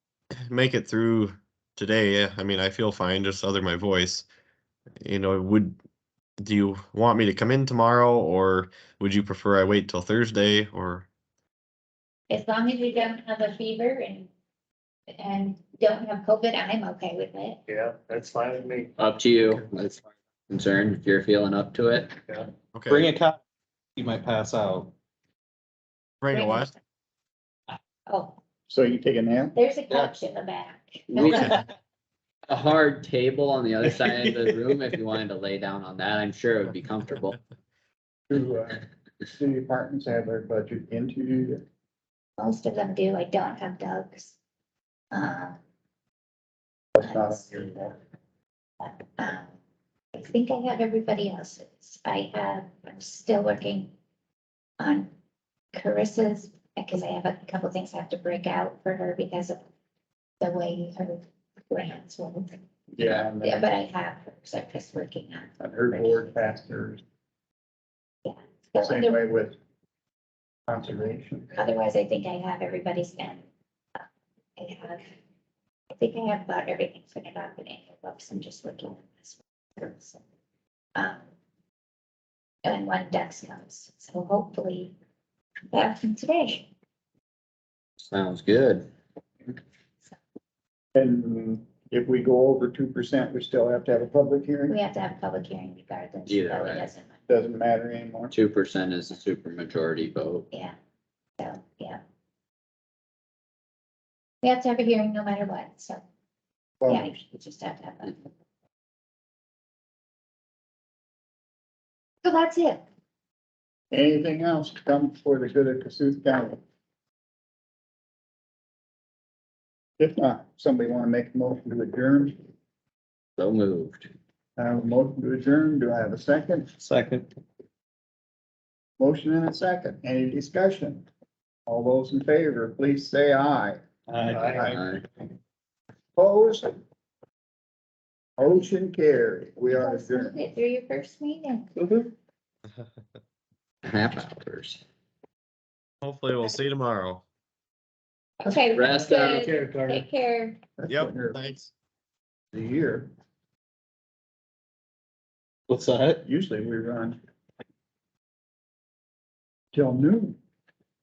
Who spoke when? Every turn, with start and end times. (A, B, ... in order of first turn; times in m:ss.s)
0:00.5-0:04.2 A
0:05.0-0:05.8 A
0:06.4-0:11.0 A
0:12.3-0:14.3 B
0:15.1-0:17.6 B
0:17.7-0:18.9 C
0:19.0-0:22.1 D
0:22.7-0:23.0 A
0:22.9-0:23.4 E
0:24.0-0:24.9 E
0:26.2-0:26.7 A
0:26.3-0:26.7 B
0:28.1-0:28.4 B
0:28.7-0:29.6 F
0:29.5-0:31.7 B
0:31.1-0:31.6 D
0:32.5-0:37.4 D
0:38.3-0:41.6 F
0:42.4-0:44.4 B
0:45.1-0:45.6 B
0:47.0-0:47.9 F
0:47.0-0:48.0 B
0:48.8-0:49.5 B
0:50.1-0:53.9 B
0:54.8-0:55.1 B
0:55.7-0:59.6 B
1:00.4-1:02.6 B
1:02.9-1:03.7 F
1:03.4-1:06.4 B
1:05.6-1:07.0 F
1:08.2-1:09.2 B
1:08.8-1:09.6 F
1:10.7-1:11.6 F
1:11.6-1:13.4 B
1:14.6-1:15.1 B
1:15.9-1:20.2 B
1:20.9-1:21.2 B
1:22.6-1:24.9 B
1:25.7-1:26.7 B
1:28.0-1:28.9 D
1:30.9-1:34.8 F
1:34.7-1:37.1 B
1:36.3-1:36.9 D
1:37.3-1:38.3 F
1:38.3-1:40.5 D
1:41.4-1:42.0 B
1:44.4-1:46.0 B
1:46.8-1:47.1 F
1:46.9-1:48.3 B
1:52.2-1:52.8 B
1:53.9-1:56.6 F
2:00.0-2:02.4 F
2:03.4-2:04.1 D
2:04.6-2:06.7 F
2:06.8-2:07.3 E
2:09.0-2:11.1 F
2:11.7-2:13.8 F
2:14.1-2:14.8 E
2:14.3-2:14.7 C
2:14.4-2:14.8 F
2:14.6-2:15.0 D
2:16.2-2:16.7 F
2:18.4-2:20.4 F
2:19.8-2:21.7 B
2:21.8-2:22.1 E
2:23.8-2:24.8 D
2:26.0-2:27.2 A
2:28.4-2:30.6 B
2:28.7-2:29.5 D
2:29.1-2:30.0 C
2:30.8-2:31.4 F
2:30.9-2:31.7 A
2:32.5-2:33.1 F
2:35.7-2:36.2 E
2:36.2-2:37.2 F
2:39.7-2:40.4 F